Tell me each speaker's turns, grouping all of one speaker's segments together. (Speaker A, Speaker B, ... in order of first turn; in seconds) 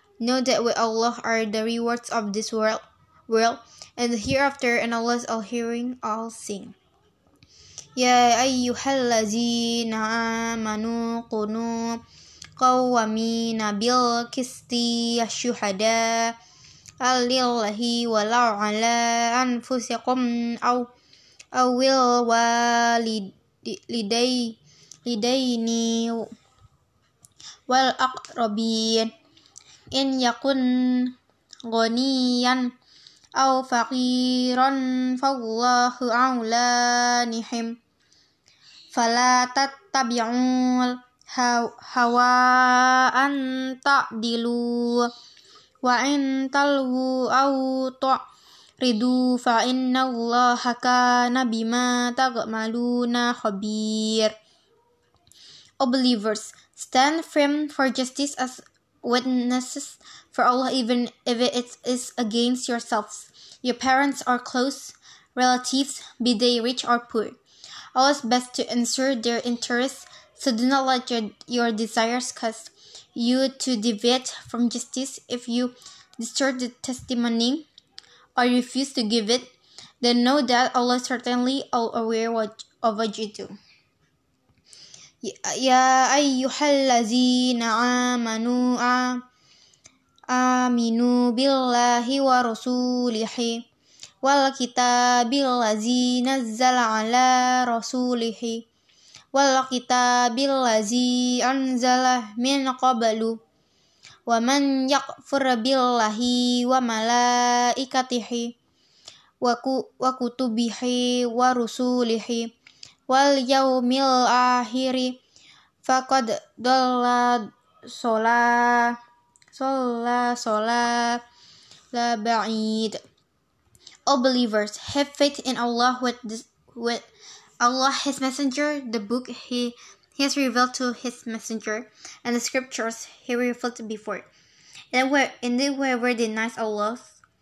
Speaker A: 0.2-6.7, 8.0-12.0, 12.6-16.4, 17.0-20.9, 21.5-26.3, 27.7-29.1, 29.9-31.1, 31.7-32.7, 33.4-37.8, 38.9-45.1, 45.8-48.2, 48.8-54.3, 55.8-67.4, 67.9-77.7, 78.3-79.5, 80.0-83.5, 85.2-89.2, 90.3-93.6, 94.2-98.6, 99.3-103.4, 104.3-108.5, 109.4-112.5, 113.1-115.2, 115.8-119.0, 119.5-121.2, 121.9-123.0, 124.1-127.1, 127.6-134.3, 134.9-137.2